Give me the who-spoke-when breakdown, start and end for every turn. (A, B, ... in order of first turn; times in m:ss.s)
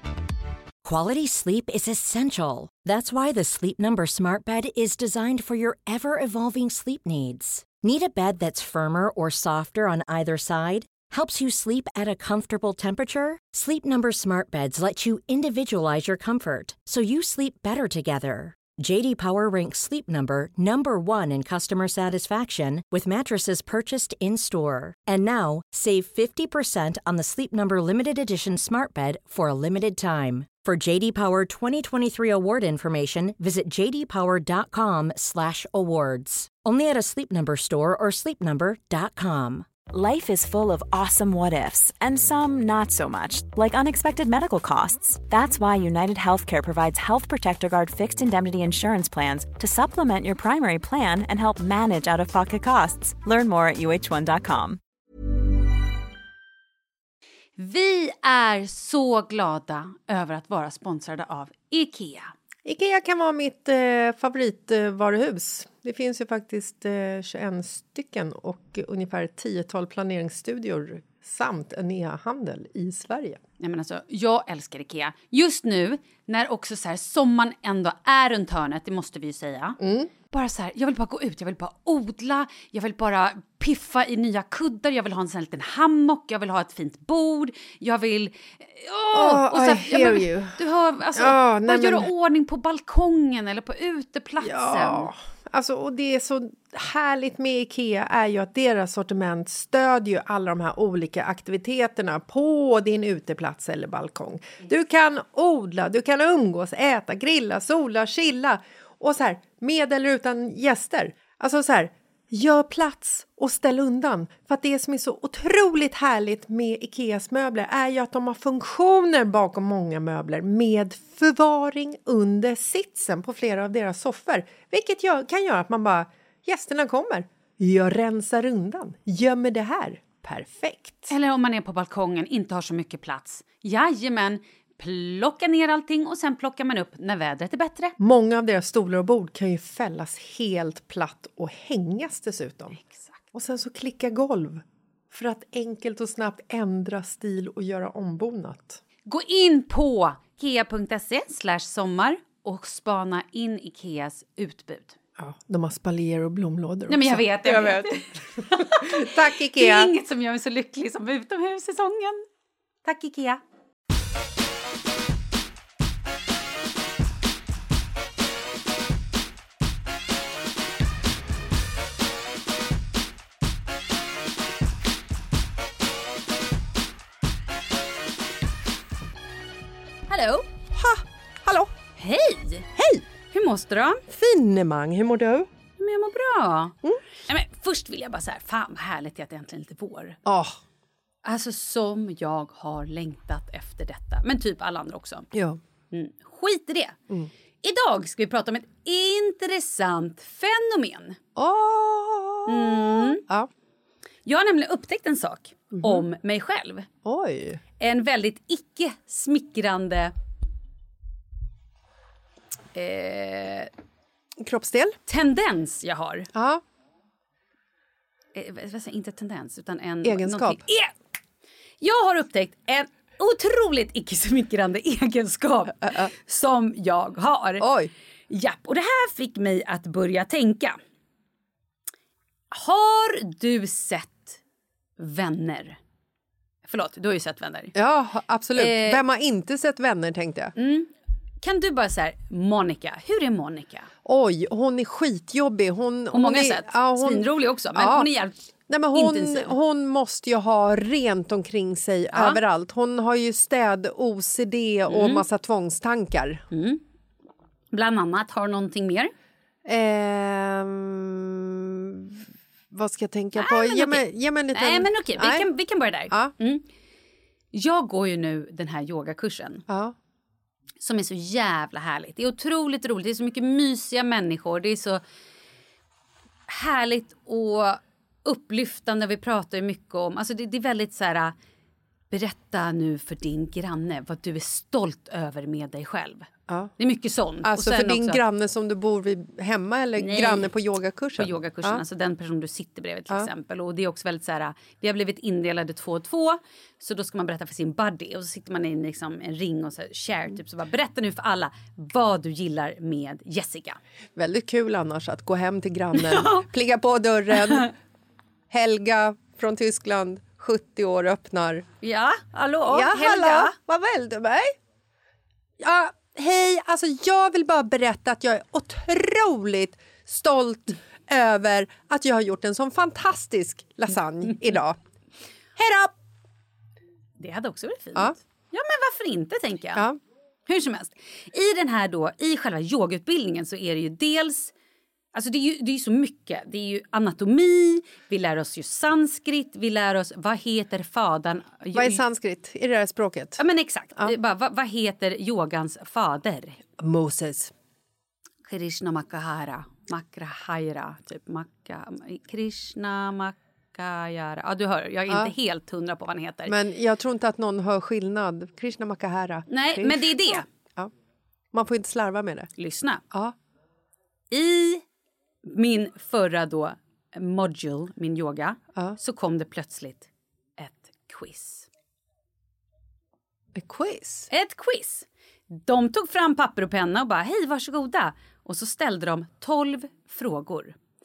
0:00.8-0:39.8 A
0:39.8-0:54.8 B
0:57.6-1:02.3 C
1:02.7-1:13.4 D
1:13.6-1:19.8 C
1:19.8-1:20.1 D
1:20.3-1:35.1 C
1:29.1-1:30.6 D
1:31.2-1:32.1 D
1:34.4-2:11.1 D
2:11.1-2:18.0 C
2:18.0-2:22.8 D
2:22.8-2:23.1 C
2:23.3-2:28.8 D
2:29.1-2:35.0 C
2:35.2-2:37.9 D
2:36.9-2:42.2 C
2:38.6-2:39.9 D
2:42.8-2:43.4 C
3:00.1-3:00.5 C
3:00.7-3:01.7 D
3:02.0-3:02.7 C
3:02.8-3:03.0 D
3:03.3-3:04.0 C
3:04.1-3:05.5 D
3:05.8-3:06.8 C
3:07.3-3:10.2 C
3:10.3-3:10.6 D
3:11.2-3:15.3 C
3:15.3-3:15.6 D
3:15.9-3:17.0 C
3:17.6-3:21.2 C
3:21.4-3:23.5 D
3:22.5-3:23.2 C
3:24.2-3:26.9 C
3:25.7-3:26.0 D
3:27.0-3:27.6 D
3:27.8-3:30.1 C
3:32.7-3:33.7 C
3:34.4-3:35.0 D
3:35.1-3:36.3 C
3:36.3-3:36.6 D
3:38.4-3:40.9 C
3:40.0-3:40.6 D
3:41.8-3:47.7 C
3:45.8-3:46.1 D
3:47.6-3:47.9 D
3:48.3-3:50.8 C
3:52.5-3:54.4 C
3:55.0-3:55.8 C
3:56.6-3:57.7 C
3:57.8-4:00.5 D
3:58.6-3:59.0 C
4:00.6-4:00.9 C
4:01.4-4:03.9 C
4:04.0-4:08.1 D
4:06.1-4:08.4 C
4:08.7-4:16.4 D
4:08.9-4:09.5 C
4:12.1-4:12.4 C
4:14.9-4:15.2 C
4:16.5-4:16.8 C
4:17.7-4:19.1 C
4:19.6-4:22.2 D
4:22.7-4:25.5 D
4:23.4-4:26.7 C
4:26.1-4:26.3 D
4:27.5-4:29.6 C
4:29.7-4:29.9 D
4:30.8-4:35.0 C
4:36.5-4:41.4 C
4:42.1-4:46.3 C
4:46.5-4:46.7 D
4:46.8-4:48.2 C
4:47.4-4:51.8 D
4:50.0-4:50.5 C
4:51.2-5:03.8 C
5:04.2-5:07.7 D
5:06.0-5:06.4 C
5:08.5-5:11.7 D
5:11.8-5:13.5 C
5:12.7-5:14.6 D
5:15.6-5:24.8 D
5:25.6-5:25.9 D
5:27.2-5:29.9 C
5:30.5-5:34.5 C
5:35.1-5:42.0 C
5:41.7-5:43.4 D
5:43.4-5:46.6 C
5:46.8-5:47.5 D
5:48.5-5:56.6 C
5:56.5-6:00.9 D
5:59.5-6:00.5 C
6:01.5-6:02.5 D
6:02.6-6:03.0 C
6:04.3-6:04.8 C
6:05.5-6:11.7 C
6:13.6-6:14.3 D
6:14.3-6:20.8 C